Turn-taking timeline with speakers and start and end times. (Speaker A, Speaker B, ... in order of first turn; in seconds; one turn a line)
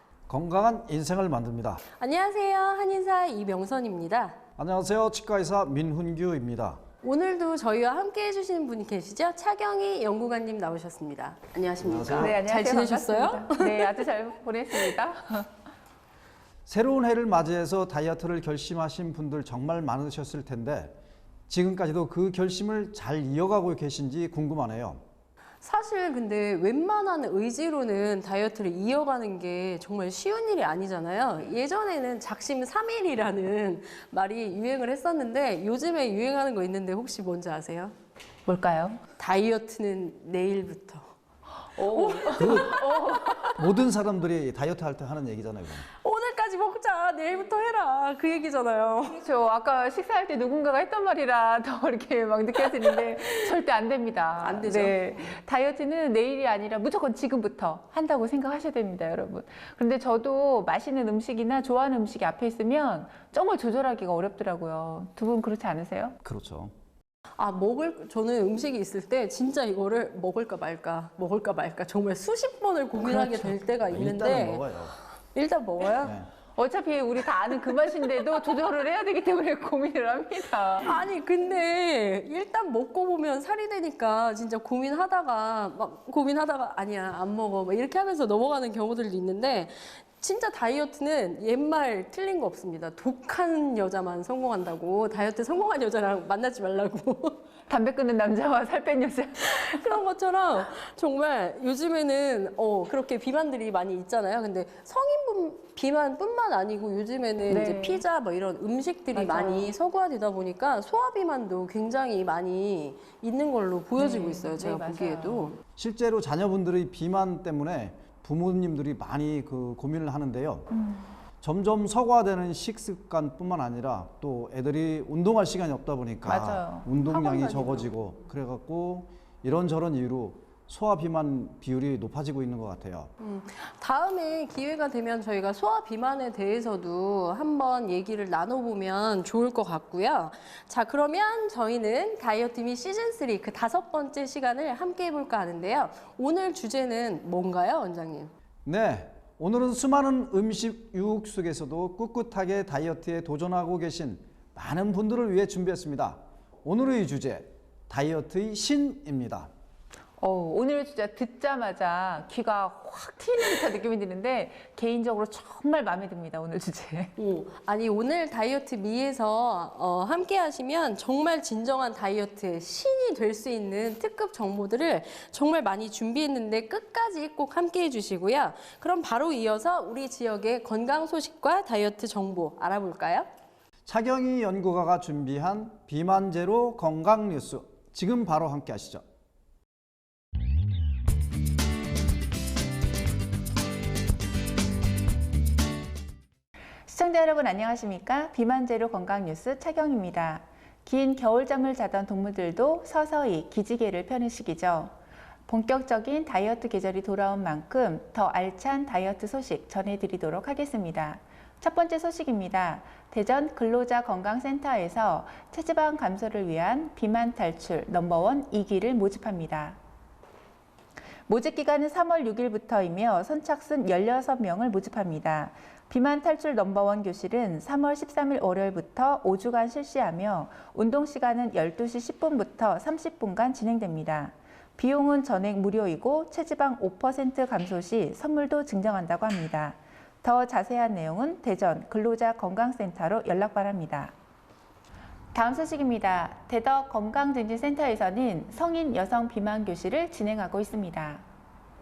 Speaker A: 0.3-1.8
Speaker B: 2.0-4.4
Speaker A: 4.6-6.8
Speaker B: 7.0-14.0
Speaker A: 11.8-12.3
Speaker C: 12.2-15.5
Speaker A: 16.7-21.0
Speaker A: 21.5-25.1
Speaker B: 25.6-37.9
Speaker C: 38.5-39.0
Speaker B: 39.2-41.1
Speaker C: 41.7-43.6
Speaker B: 41.8-43.4
Speaker A: 42.4-42.8
Speaker A: 43.5-45.9
Speaker B: 46.0-49.2
Speaker C: 49.2-66.2
Speaker B: 54.4-55.4
Speaker A: 66.2-66.7
Speaker B: 67.4-76.2
Speaker C: 73.1-73.5
Speaker A: 73.9-75.0
Speaker A: 76.0-76.3
Speaker C: 76.6-81.0
Speaker B: 80.8-97.5
Speaker C: 97.7-100.0
Speaker B: 99.5-115.6
Speaker C: 107.5-108.0
Speaker C: 109.1-109.7
Speaker C: 114.0-115.5
Speaker A: 115.8-120.7
Speaker C: 120.7-121.1
Speaker A: 121.4-133.1
Speaker C: 126.3-127.8
Speaker B: 133.2-148.3
Speaker A: 148.7-159.5
Speaker C: 160.2-167.1
Speaker B: 167.2-183.3
Speaker A: 183.9-189.0
Speaker C: 196.9-204.9
Speaker C: 205.5-219.8
Speaker C: 221.3-244.1
Speaker C: 245.3-251.2